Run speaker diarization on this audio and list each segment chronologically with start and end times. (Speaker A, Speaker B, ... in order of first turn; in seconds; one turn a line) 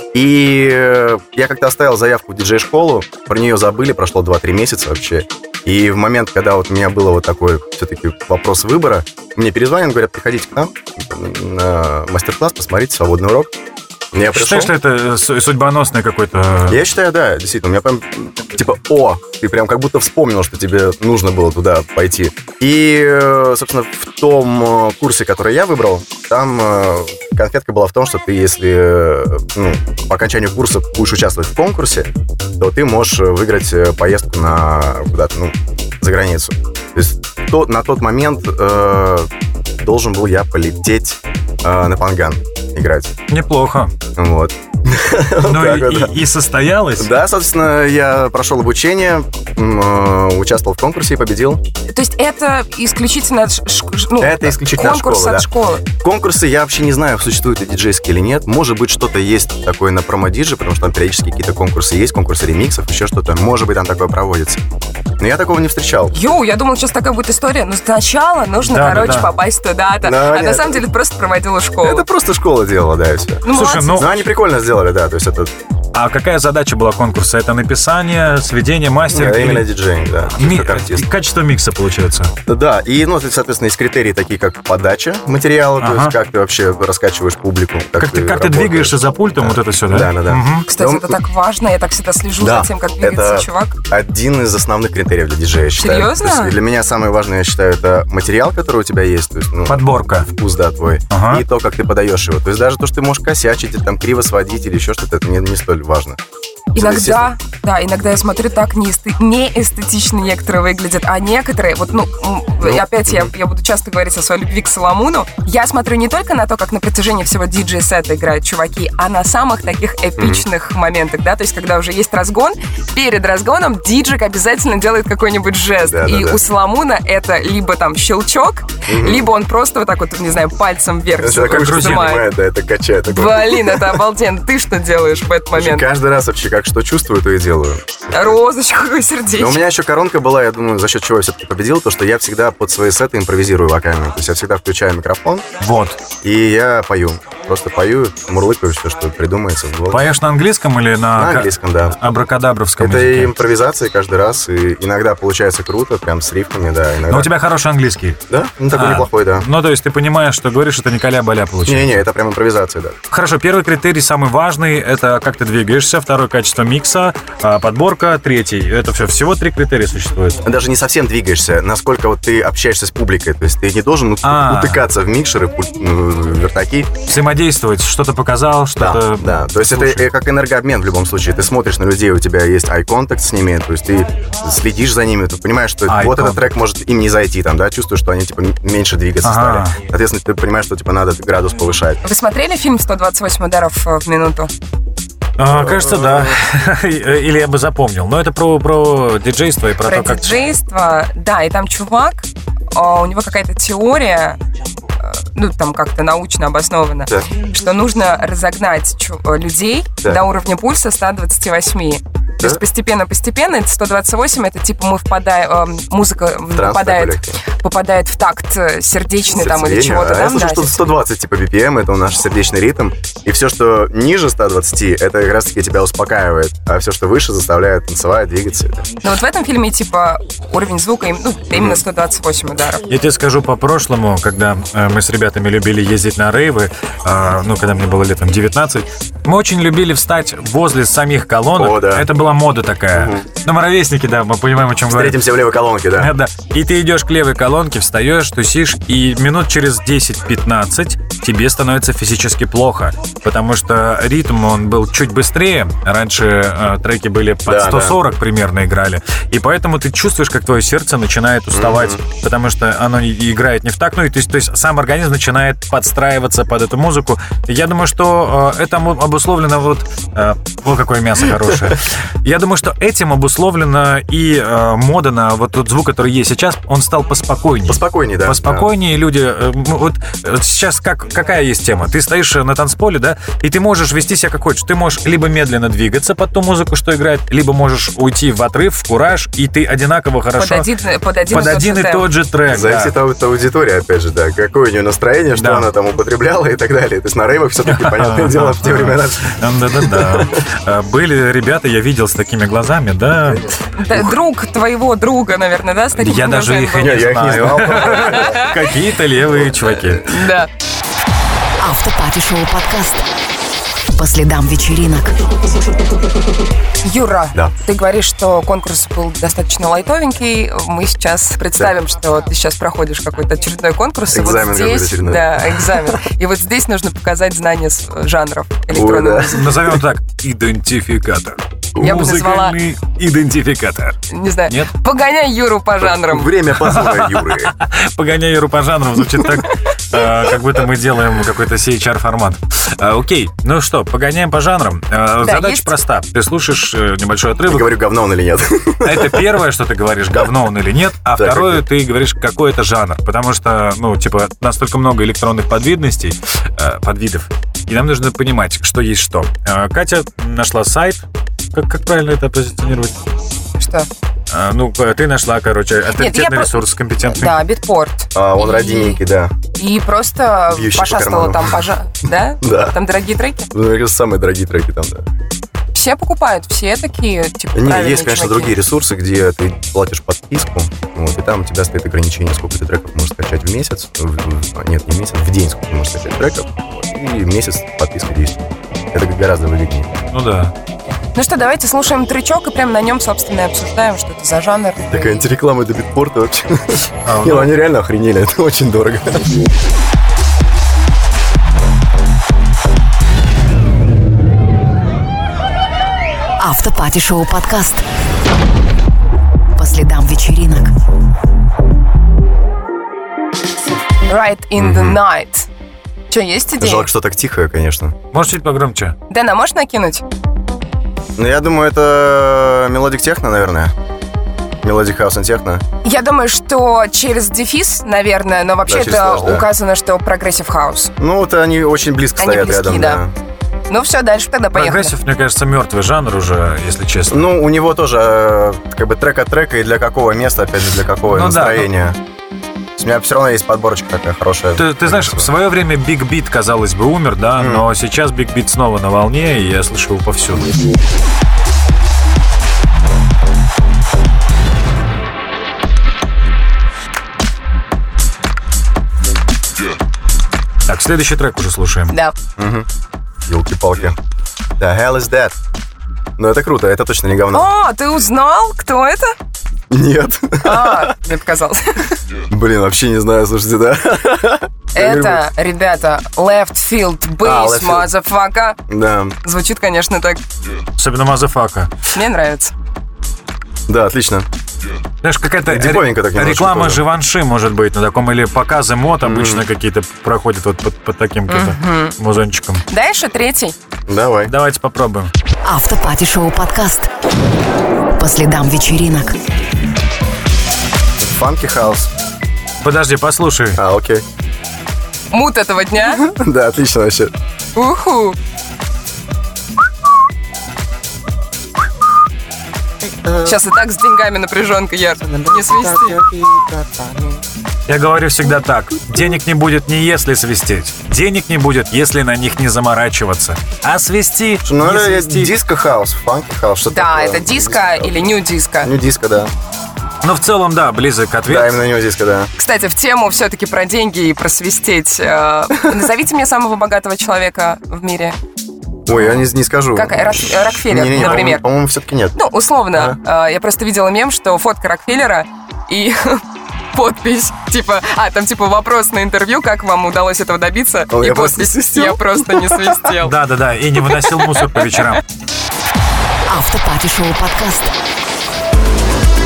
Speaker A: 0.1-13.5
Speaker A: 14.1-14.7
Speaker B: 14.3-16.8
Speaker A: 16.7-43.2
Speaker B: 43.3-43.9
Speaker A: 44.2-46.2
Speaker B: 45.4-47.1
Speaker A: 47.0-51.6
Speaker C: 51.9-55.8
Speaker A: 54.2-55.5
Speaker A: 56.0-64.6
Speaker A: 65.2-66.2
Speaker C: 66.1-72.1
Speaker B: 68.6-69.3
Speaker A: 70.0-70.8
Speaker A: 71.8-75.5
Speaker C: 73.4-74.3
Speaker B: 73.5-74.1
Speaker B: 75.9-79.7
Speaker A: 79.1-81.1
Speaker B: 80.4-82.3
Speaker A: 82.5-91.2
Speaker B: 85.8-86.1
Speaker B: 88.0-90.7
Speaker C: 90.7-93.8
Speaker A: 92.4-106.2
Speaker C: 95.8-96.6
Speaker B: 99.7-100.3
Speaker B: 101.1-101.4
Speaker A: 106.7-107.3
Speaker C: 106.8-132.3
Speaker A: 112.6-113.3
Speaker A: 120.2-120.5
Speaker A: 125.8-126.4
Speaker A: 128.9-129.3
Speaker A: 131.2-134.0
Speaker B: 131.5-132.2
Speaker C: 133.1-135.9
Speaker A: 135.5-138.4
Speaker C: 138.1-139.6
Speaker A: 139.3-145.5
Speaker B: 145.6-146.0
Speaker A: 146.2-150.1
Speaker B: 149.9-153.3
Speaker A: 151.2-152.0
Speaker A: 152.8-157.3
Speaker B: 157.1-158.2
Speaker A: 158.3-159.5
Speaker B: 158.7-162.0
Speaker A: 161.7-163.0
Speaker B: 163.1-170.4
Speaker A: 170.4-177.0
Speaker B: 174.2-174.8
Speaker B: 177.1-180.0
Speaker A: 178.8-192.0
Speaker B: 185.9-186.5
Speaker B: 189.2-189.8
Speaker C: 192.0-194.5
Speaker B: 195.4-200.4
Speaker A: 195.5-196.4
Speaker C: 199.8-204.4
Speaker C: 205.0-220.8
Speaker A: 216.5-217.4
Speaker A: 219.3-228.9
Speaker C: 229.0-232.9
Speaker A: 231.5-231.8
Speaker B: 232.9-245.2
Speaker A: 241.6-242.1
Speaker A: 242.9-243.3
Speaker A: 244.9-246.1
Speaker B: 245.9-290.7
Speaker A: 257.5-258.0
Speaker A: 261.5-262.0
Speaker A: 277.7-278.7
Speaker C: 290.4-292.1
Speaker B: 291.3-292.9
Speaker A: 292.5-300.4
Speaker B: 295.4-295.7
Speaker B: 297.7-303.5
Speaker C: 303.7-307.1
Speaker B: 306.0-310.3
Speaker A: 306.8-308.4
Speaker C: 307.8-308.6
Speaker C: 309.9-310.5
Speaker D: 311.6-313.0
Speaker D: 313.9-315.2
Speaker C: 316.8-329.4
Speaker A: 324.1-326.0
Speaker A: 328.7-329.8
Speaker B: 329.3-334.7
Speaker C: 331.8-332.6
Speaker C: 334.1-336.3
Speaker A: 335.8-337.6
Speaker B: 336.6-347.8
Speaker C: 345.2-345.7
Speaker A: 347.5-349.3
Speaker B: 348.8-363.1
Speaker A: 351.2-351.6
Speaker C: 363.6-363.9
Speaker B: 364.3-367.4
Speaker C: 365.9-369.0
Speaker A: 368.1-369.4
Speaker C: 369.6-373.5
Speaker A: 370.5-371.6
Speaker A: 372.4-372.8
Speaker A: 373.5-375.1
Speaker C: 375.8-378.6
Speaker A: 377.6-390.0
Speaker B: 390.1-390.5
Speaker C: 391.1-395.2
Speaker A: 394.9-399.3
Speaker B: 397.1-397.5
Speaker D: 406.4-407.8
Speaker D: 409.6-410.7
Speaker C: 414.1-415.5
Speaker A: 414.6-415.0
Speaker C: 416.1-416.9
Speaker A: 416.6-418.0
Speaker B: 418.1-419.0
Speaker C: 419.1-420.1
Speaker A: 421.2-423.7
Speaker A: 424.6-425.6
Speaker C: 425.8-430.9
Speaker A: 428.7-429.5
Speaker A: 431.0-433.1
Speaker C: 432.2-433.0
Speaker C: 433.7-434.9
Speaker B: 434.5-437.3
Speaker A: 437.1-442.0
Speaker B: 441.1-441.7
Speaker A: 442.8-445.3
Speaker B: 444.6-450.5
Speaker A: 447.4-447.6
Speaker B: 460.7-461.9
Speaker C: 461.9-462.1
Speaker A: 462.4-462.7
Speaker A: 463.3-464.0
Speaker A: 464.6-465.4
Speaker A: 466.2-467.5
Speaker C: 467.3-469.1
Speaker A: 469.7-470.9
Speaker C: 470.4-472.0
Speaker A: 472.3-475.3
Speaker C: 474.8-478.6
Speaker A: 477.2-477.9
Speaker A: 478.7-479.2
Speaker C: 479.2-480.2
Speaker B: 480.8-481.7
Speaker C: 481.9-482.5
Speaker A: 483.7-484.3
Speaker B: 485.0-492.6
Speaker A: 485.5-486.8
Speaker A: 489.0-489.5
Speaker C: 491.3-492.0
Speaker C: 492.7-493.6
Speaker A: 493.9-494.3
Speaker B: 494.3-495.1
Speaker D: 495.4-496.9
Speaker D: 498.0-499.1
Speaker A: 501.0-501.9
Speaker B: 502.6-503.6
Speaker A: 503.6-504.1
Speaker C: 505.1-506.1
Speaker A: 505.9-507.1
Speaker C: 507.6-508.2
Speaker A: 512.8-513.4
Speaker C: 513.2-516.0
Speaker A: 515.0-517.2
Speaker B: 517.7-525.3
Speaker A: 524.5-529.3
Speaker C: 526.7-528.7
Speaker B: 530.0-531.6
Speaker A: 531.3-532.3
Speaker C: 532.4-538.2
Speaker A: 538.9-542.2
Speaker C: 538.9-539.2
Speaker C: 539.7-541.4
Speaker C: 542.2-553.2
Speaker A: 542.7-543.0
Speaker A: 550.9-552.9
Speaker B: 553.0-555.0
Speaker C: 554.0-554.8
Speaker D: 556.3-557.7